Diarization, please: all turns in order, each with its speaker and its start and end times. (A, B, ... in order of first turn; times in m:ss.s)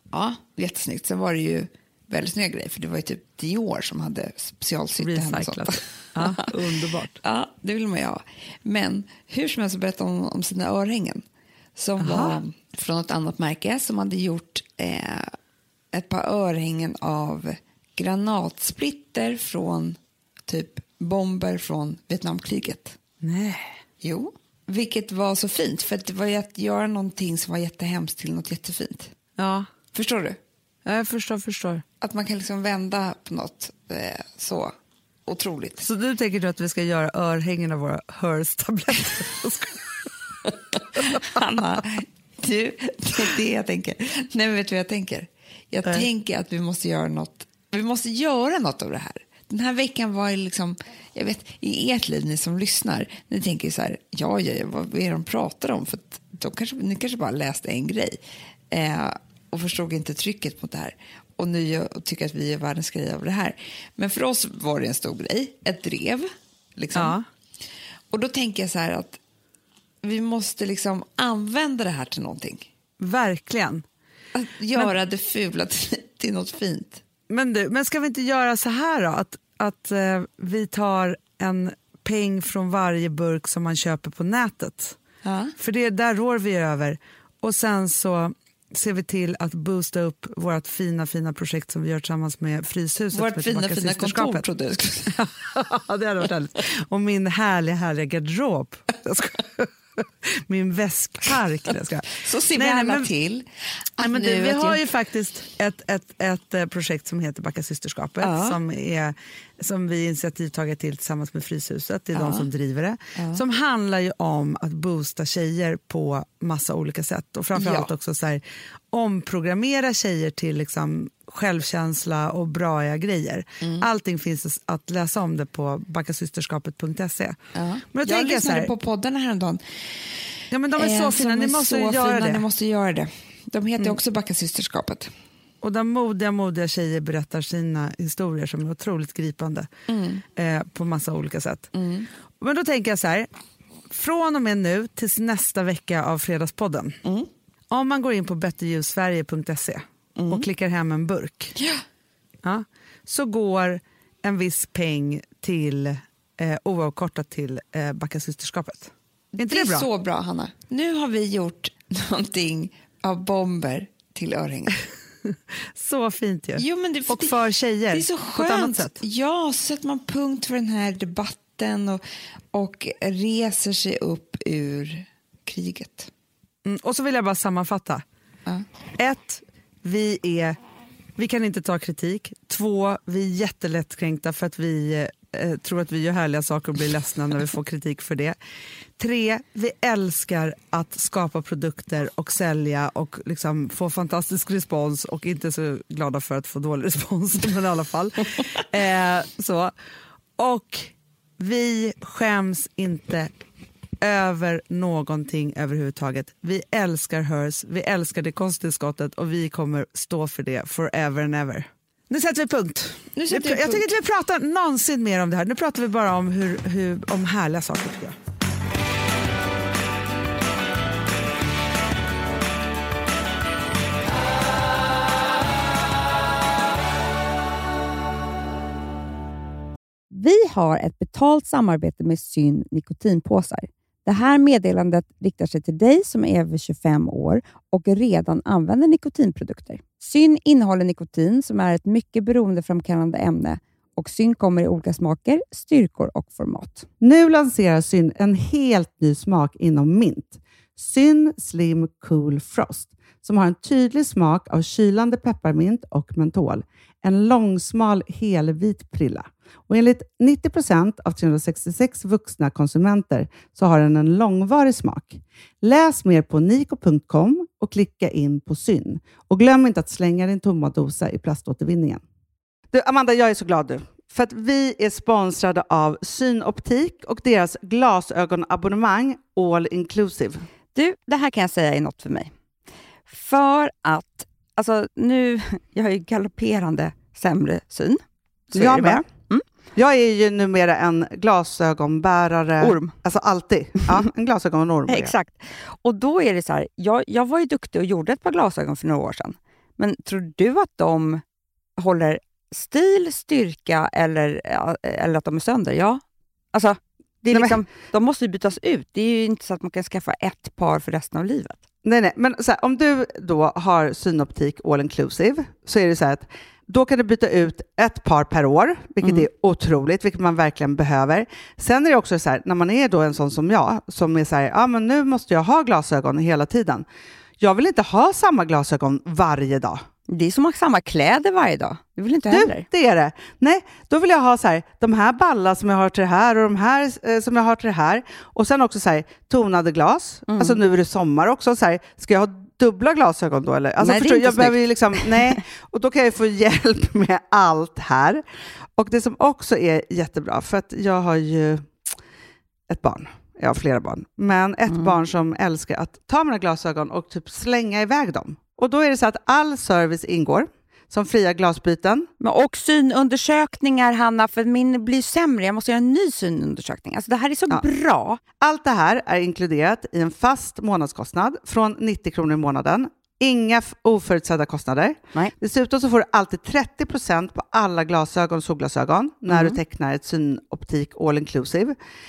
0:00.1-0:06.5 A
0:05.0-0:07.2 B
0:07.2-0:15.3 A
0:12.0-0:12.4 B
0:15.9-0:23.0 A
0:23.2-0:23.8 B
0:24.0-0:29.1 A
0:29.4-0:29.7 B
0:29.9-0:30.4 A
0:30.8-0:31.8 B
0:32.0-0:34.7 A
0:35.3-0:35.9 A
0:35.8-0:40.1 B
0:40.9-0:41.5 B
0:40.9-1:07.2 A
1:07.0-1:07.3 B
1:08.1-1:09.2 A
1:10.0-1:12.7 A
1:13.0-1:13.8 B
1:14.3-1:17.0 A
1:17.3-1:25.0 B
1:25.2-1:25.5 A
1:25.6-1:34.4 B
1:33.1-1:35.1 A
1:35.1-1:43.1 B
1:42.1-1:44.8 A
1:44.0-2:07.4 B
1:48.2-1:48.6 A
1:52.1-1:52.5 A
1:53.2-1:53.4 A
1:57.6-1:57.9 A
2:03.6-2:03.9 A
2:07.5-2:15.1 A
2:07.9-2:08.7 B
2:10.5-2:12.4 B
2:15.6-2:19.7 B
2:19.9-2:20.2 A
2:20.3-2:21.7 B
2:21.7-2:22.1 A
2:22.4-2:23.3 B
2:23.9-2:27.0 B
2:27.0-2:27.3 A
2:27.7-2:31.6 B
2:30.2-2:30.5 A
2:31.6-2:31.8 A
2:32.4-2:39.9 B
2:39.4-2:44.8 A
2:45.8-2:49.0 B
2:46.6-2:47.4 A
2:47.9-2:52.0 A
2:52.5-2:56.1 A
2:56.6-2:58.0 B
2:59.0-3:00.6 B
3:01.2-3:08.4 B
3:09.0-3:19.7 B
3:20.4-3:23.3 B
3:24.0-3:38.2 B
3:33.2-3:33.8 A
3:50.1-4:06.9 C
4:07.0-4:32.0 D
4:32.7-4:40.5 D
4:40.8-4:42.3 C
4:43.1-4:49.4 C
4:48.6-4:49.0 D
4:49.8-4:55.1 D
4:52.6-4:52.9 C
4:54.9-5:01.2 C
5:01.8-5:06.0 C
5:06.5-5:11.6 C
5:07.3-5:07.6 D
5:11.8-5:26.9 D
5:27.4-5:29.8 D
5:30.1-5:32.7 C
5:32.3-5:51.9 D
5:40.3-5:40.6 C
5:43.8-5:45.4 C
5:52.7-6:02.1 D
5:54.7-5:54.9 C
6:02.2-6:08.2 C
6:08.4-6:21.8 D
6:19.3-6:19.6 C